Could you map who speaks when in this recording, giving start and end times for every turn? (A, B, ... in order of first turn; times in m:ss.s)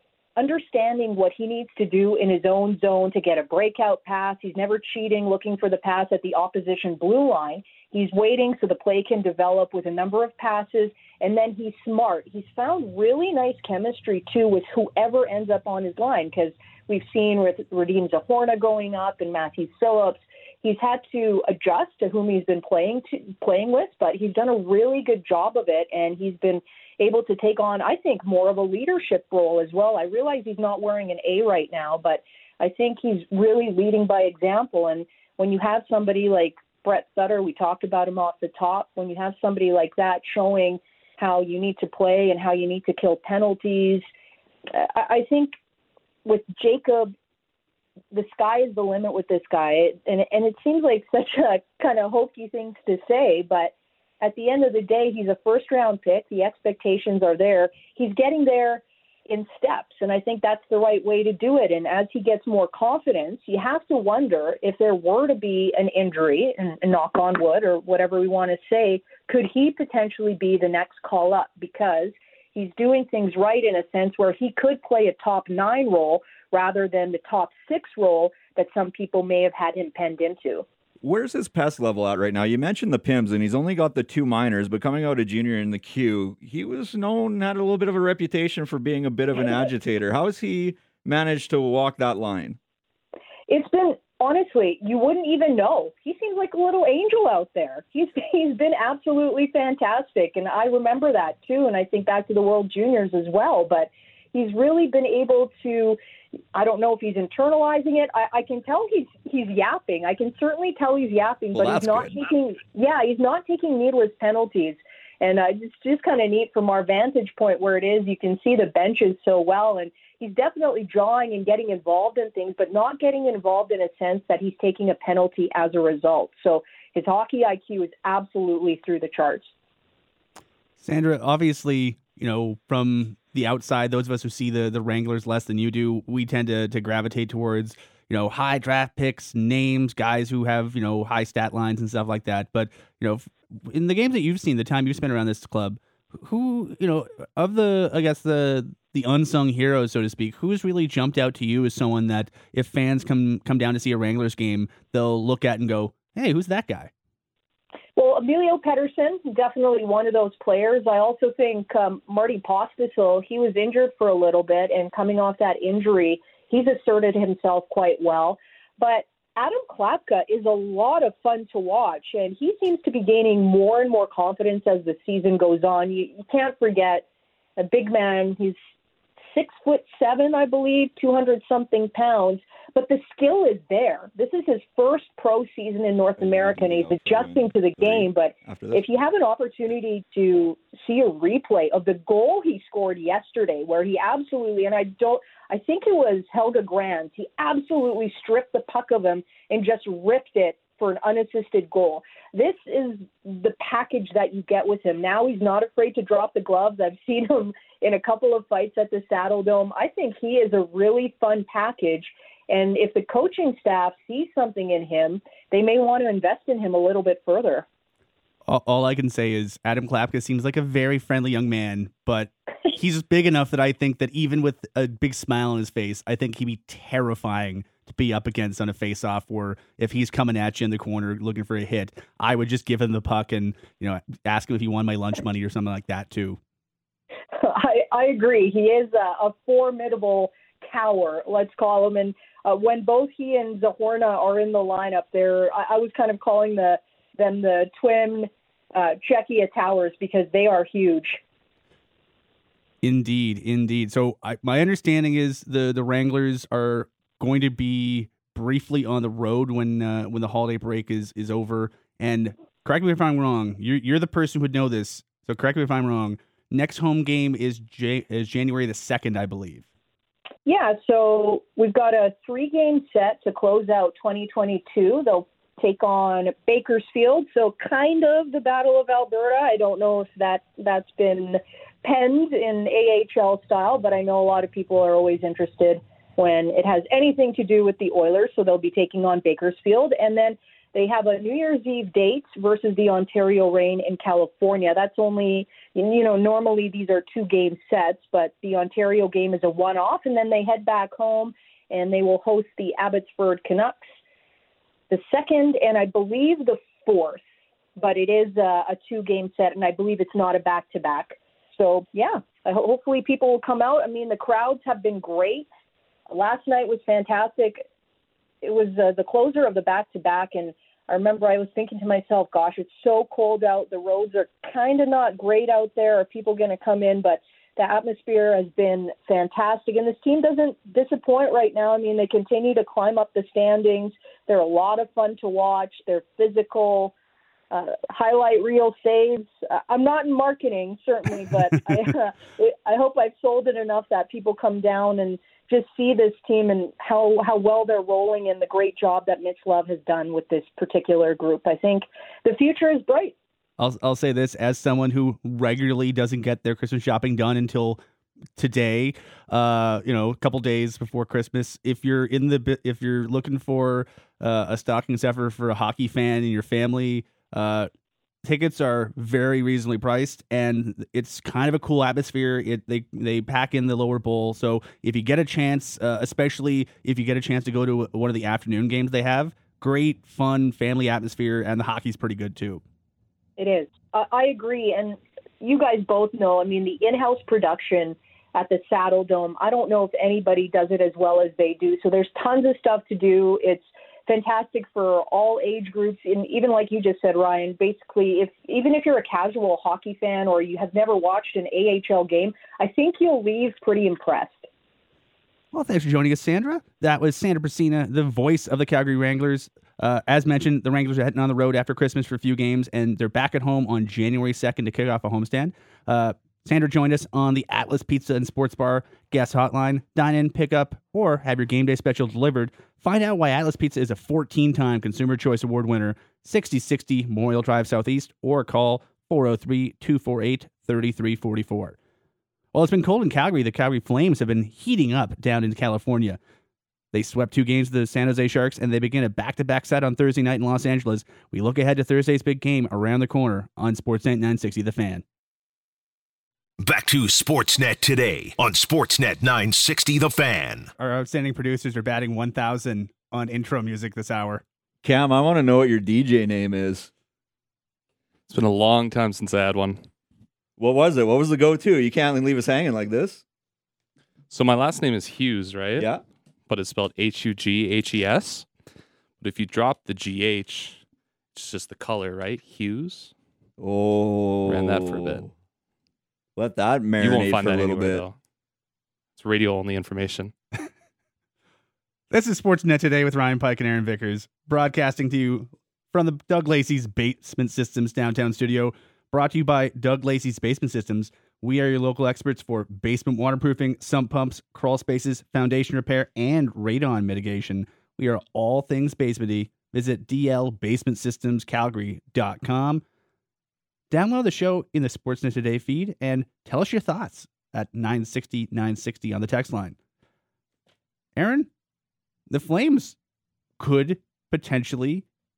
0:00.4-0:44.0 A
0:44.7-0:45.5 A
0:46.2-0:47.1 A
0:48.1-1:20.6 A
1:21.0-1:32.6 B
1:33.5-1:46.0 A
1:46.5-2:09.5 A
1:51.5-1:52.2 B
2:10.8-2:36.9 C
2:38.0-2:57.0 A
2:57.6-2:58.6 A
2:59.3-3:37.7 A
3:06.2-3:08.8 B
3:38.5-3:56.4 C
3:57.4-4:11.2 A
4:12.8-4:29.6 C
4:30.5-5:03.8 A
5:04.9-5:07.2 A
5:07.8-5:15.5 A
5:16.1-5:17.6 A
5:18.4-5:36.9 A
5:37.5-5:53.1 A
5:53.6-5:57.8 C
5:58.4-6:07.7 C
6:08.2-6:22.6 C
6:23.4-6:44.4 A
6:45.5-7:11.8 C
7:12.5-7:16.2 C
7:16.9-7:25.0 C
7:26.6-7:30.7 D
7:30.8-7:34.4 C
7:34.8-7:36.9 B
7:38.3-7:39.8 E
7:40.6-7:43.2 B
7:44.3-7:45.9 E
7:46.5-7:48.5 E
7:49.2-7:50.8 E
7:51.3-7:53.1 E
7:53.6-7:55.3 B
7:54.5-7:55.3 E
7:56.4-7:58.0 B
7:57.0-7:58.2 E
7:59.2-8:00.3 E
8:02.1-8:22.8 C
8:23.9-8:29.8 C
8:31.2-8:31.5 C
8:32.3-8:33.0 C
8:33.6-8:35.0 C